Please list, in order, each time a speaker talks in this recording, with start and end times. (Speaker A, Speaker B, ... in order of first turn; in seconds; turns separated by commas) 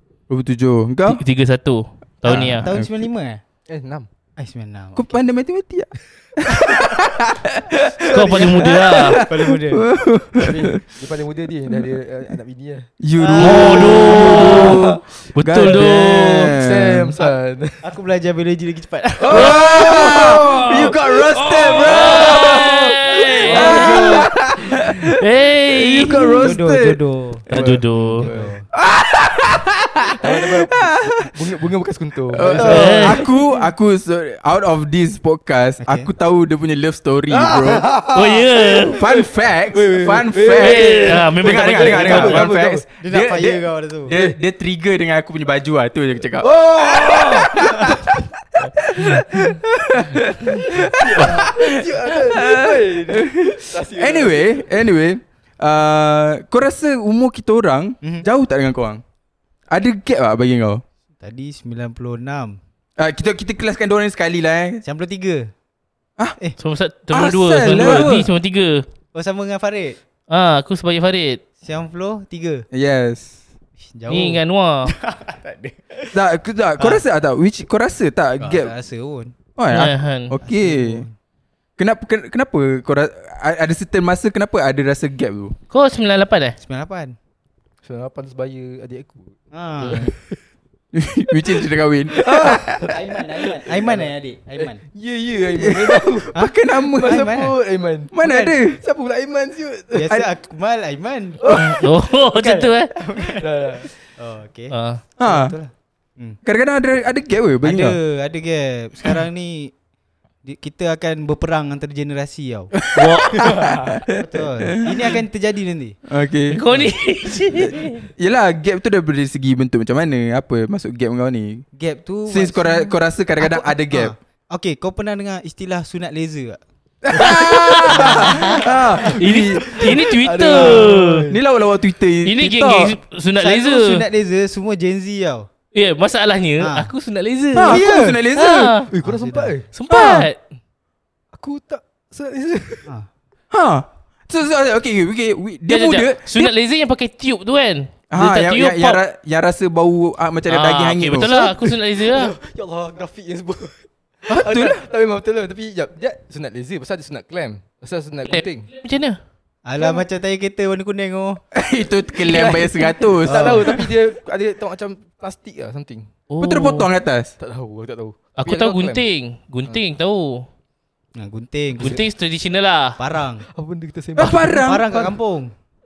Speaker A: 0.3-1.2, Speaker B: 1.1-2.7, Speaker A: 2.2-2.9, Speaker C: 2.6-3.4, Speaker D: 3.7-4.1, Speaker C: 4.4-5.2, Speaker A: 5.0-10.8, Speaker C: 6.5-7.0, Speaker B: 8.0-9.2, Speaker C: 8.1-10.8, Speaker D: 10.9-15.0, Speaker A: 13.0-17.2, Speaker C: 13.2-13.9, Speaker B: 13.4-16.6, Speaker D: 15.6-17.8, Speaker C: 17.2-19.6, Speaker D: 19.2-21.0, Speaker A: 19.3-27.0, Speaker B: 19.3-24.3, Speaker D: 21.6-24.7, Speaker B: 25.2-26.4, Speaker C: 26.4-28.7, Speaker B: 27.5-28.3, Speaker D: 27.5-28.6, Speaker A: 28.7-31.3, Speaker D: 30.2-33.1, Speaker A: 32.3-37.9, Speaker C: 32.6-33.5, Speaker B: 32.6-33.2, Speaker C: 35.8-36.1, Speaker D: 37.3-42.9, Speaker B: 38.1-39.0, Speaker A: 38.9-59.0, Speaker B: 40.5-42.5, Speaker C: 43.0-44.1, Speaker D: 46.4-48.2, Speaker D: 50.4-54.7, Speaker A: 59.7-60.8, Speaker C: 61.2-62.6, Speaker A: 63.0-64.8, Speaker C: 64.8-65.5, Speaker B: 66.6-68.8, Speaker A: 67.1-68.3, Speaker C: 69.1-70.0, Speaker B: 70.3-71.4, Speaker C: 71.6-72.7, Speaker A: 72.7-73.4, Speaker C: 73.8-76.2, Speaker B: 74.1-74.9, Speaker A: 76.1-78.7, Speaker C: 78.4-79.3, Speaker A: 79.6-81.0, Speaker B: 79.7-80.3, Speaker C: 80.4-81.1, Speaker A: 81.8-85.6, Speaker B: 85.7-86.6, Speaker C: 86.6-87.2, Speaker D: 87.8-89.4, Speaker C: 89.5-90.1, Speaker B: 89.8-90.1, Speaker D: 89.9-90.4, Speaker A: 90.9-93.0, Speaker D: 92.2-94.1, Speaker C: 92.9-94.8, Speaker D: 94.6-98.2, Speaker A: 95.5-97.4, Speaker C: 96.3-97.5, Speaker A: 98.1-98.8, Speaker C: 98.2-98.6, Speaker D: 98.7-100.1, Speaker C: 99.9-106.4, Speaker A: 100.0-100.2, Speaker D: 101.4-101.8, Speaker B: 101.5-102.9, Speaker D: 103.4-103.9, Speaker B: 104.7-105.0, Speaker A: 105.2-105.5, Speaker A: 106.5-108.0, Speaker C: 107.6-109.7, Speaker C: 110.5-112.7, Speaker A: 112.8-115.0, Speaker B: 113.0-113.6, Speaker D: 113.5-114.0, Speaker C: 114.2-116.0, Speaker A: 116.1-116.6, Speaker B: 116.5-118.1, Speaker A: 117.5-121.7, Speaker C: 121.8-126.6, Speaker A: 122.3-124.1, Speaker A: 127.0-129.9, Speaker B: 127.2-128.6, Speaker C: 127.9-128.8, Speaker B: 129.2-131.3, Speaker D: 129.7-131.4, Speaker A: 131.3-133.0, Speaker B: 132.2-134.0, Speaker C: 133.4-135.5, Speaker B: 135.7-138.9, Speaker C: 136.6-136.9, Speaker A: 137.5-138.8, Speaker C: 137.6-138.2, Speaker D: 138.9-139.7, Speaker C: 139.0-139.6, Speaker B: 139.7-140.4, Speaker A: 139.9-140.3, Speaker D: 141.3-142.9, Speaker A: 143.5-146.5, Speaker B: 145.7-149.0, Speaker A: 148.1-151.7, Speaker B: 150.5-152.3, Speaker D: 152.0-158.7, Speaker A: 154.3-154.8, Speaker B: 158.3-159.2, Speaker C: 159.7-161.4, Speaker D: 159.8-160.0, Speaker A: 161.5-163.7, Speaker D: 162.2-166.1, Speaker C: 163.3-163.8, Speaker B: 166.3-166.9, Speaker A: 166.4-167.3, Speaker D: 167.4-169.0, Speaker B: 168.4-170.5, Speaker C: 171.2-172.0, Speaker B: 171.8-173.0, Speaker C: 173.0-173.5, Speaker D: 173.5-175.1, Speaker A: 174.2-174.8, Speaker C: 174.6-175.5